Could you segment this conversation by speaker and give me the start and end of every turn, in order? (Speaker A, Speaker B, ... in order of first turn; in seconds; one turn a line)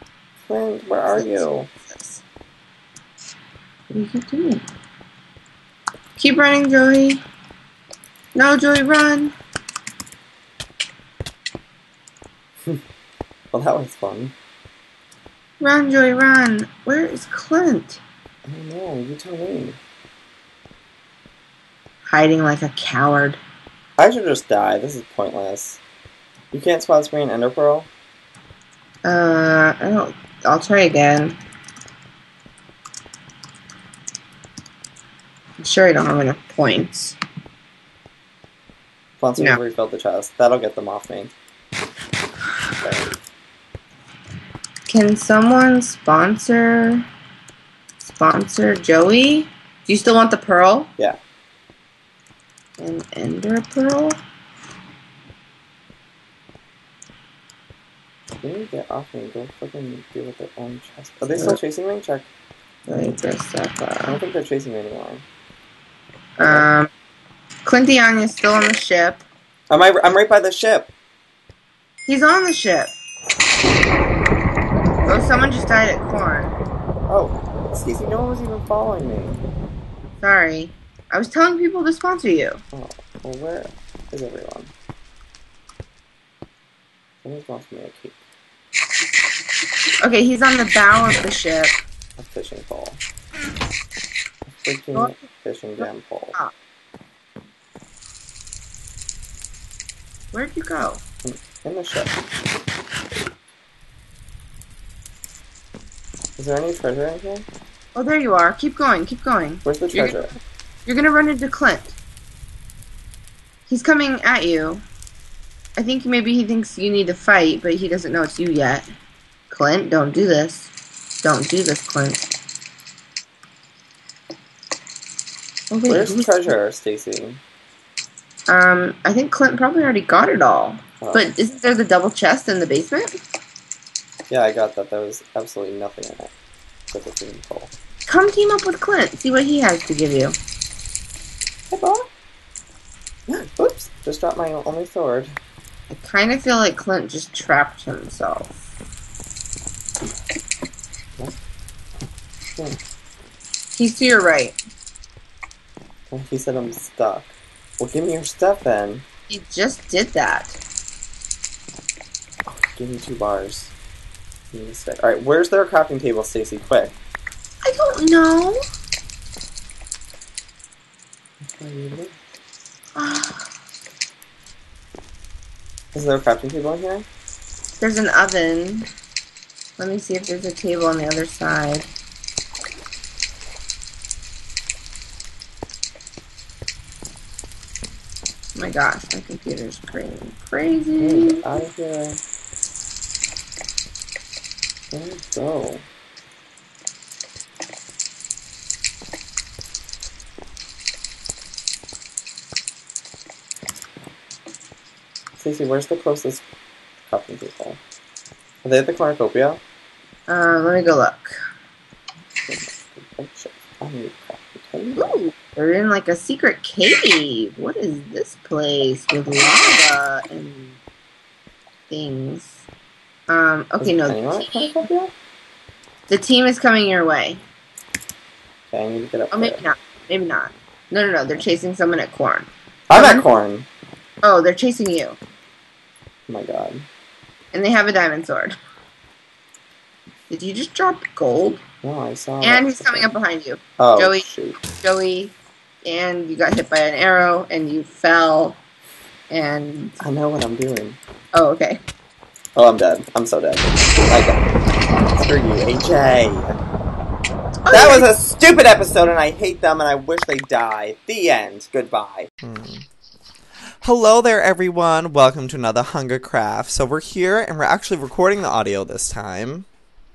Speaker A: 0.5-1.7
Speaker B: 1.1-2.2
Speaker B: 3.9-4.7
Speaker B: 6.2-7.2
Speaker B: 8.3-9.3
Speaker A: 13.5-14.3
Speaker B: 15.6-18.0
Speaker A: 18.5-19.8
Speaker B: 22.1-23.4
Speaker A: 24.0-25.8
Speaker A: 26.5-27.9
Speaker B: 29.0-31.4
Speaker B: 35.6-37.2
Speaker A: 39.2-41.4
Speaker A: 42.8-43.2
Speaker B: 44.9-47.0
Speaker B: 48.0-50.9
Speaker B: 52.8-54.2
Speaker A: 58.4-62.3
Speaker B: 62.9-64.2
Speaker A: 64.0-65.2
Speaker A: 66.4-66.7
Speaker B: 66.4-66.9
Speaker B: 67.6-69.2
Speaker A: 69.7-70.9
Speaker B: 72.1-72.9
Speaker B: 75.1-76.6
Speaker A: 77.1-79.4
Speaker B: 80.2-82.6
Speaker A: 82.7-84.7
Speaker A: 87.2-88.2
Speaker B: 90.0-91.8
Speaker A: 92.2-93.0
Speaker A: 94.5-96.4
Speaker B: 95.0-95.2
Speaker B: 95.8-96.5
Speaker B: 100.3-101.0
Speaker A: 101.2-102.2
Speaker A: 106.4-107.5
Speaker B: 108.0-112.0
Speaker A: 109.7-110.4
Speaker B: 113.7-114.8
Speaker B: 115.8-118.9
Speaker B: 119.5-120.7
Speaker B: 121.2-122.3
Speaker B: 125.7-126.5
Speaker A: 125.9-127.4
Speaker B: 128.5-133.2
Speaker A: 131.0-131.3
Speaker A: 134.3-136.3
Speaker A: 136.9-137.7
Speaker B: 138.1-140.4
Speaker A: 141.7-142.1
Speaker A: 143.3-145.3
Speaker B: 145.9-148.7
Speaker B: 153.7-154.6
Speaker A: 156.1-159.1
Speaker B: 159.3-160.6
Speaker A: 162.5-163.7
Speaker A: 164.5-166.9
Speaker B: 167.6-168.6
Speaker A: 171.4-172.2
Speaker B: 173.0-173.5
Speaker A: 175.9-177.1
Speaker B: 177.8-178.9
Speaker B: 179.8-181.9
Speaker B: 188.6-191.4
Speaker A: 191.0-192.2
Speaker A: 194.9-195.8
Speaker A: 205.4-206.4
Speaker A: 207.1-207.8
Speaker A: 208.6-209.6
Speaker B: 210.3-211.4
Speaker A: 212.4-215.2
Speaker B: 215.0-220.8
Speaker B: 221.9-222.7
Speaker B: 223.3-224.8
Speaker A: 223.8-225.1
Speaker B: 226.1-227.4
Speaker A: 228.7-229.6
Speaker B: 229.3-233.2
Speaker A: 232.9-233.7
Speaker B: 234.2-235.2
Speaker A: 236.3-236.9
Speaker B: 237.5-238.6
Speaker B: 240.3-241.6
Speaker A: 241.8-243.1
Speaker B: 242.4-248.6
Speaker A: 243.8-244.6
Speaker B: 249.3-250.0
Speaker A: 250.0-251.0
Speaker B: 251.3-251.8
Speaker A: 252.6-254.4
Speaker A: 255.1-256.6
Speaker B: 257.7-258.1
Speaker A: 257.7-262.9
Speaker A: 263.8-269.7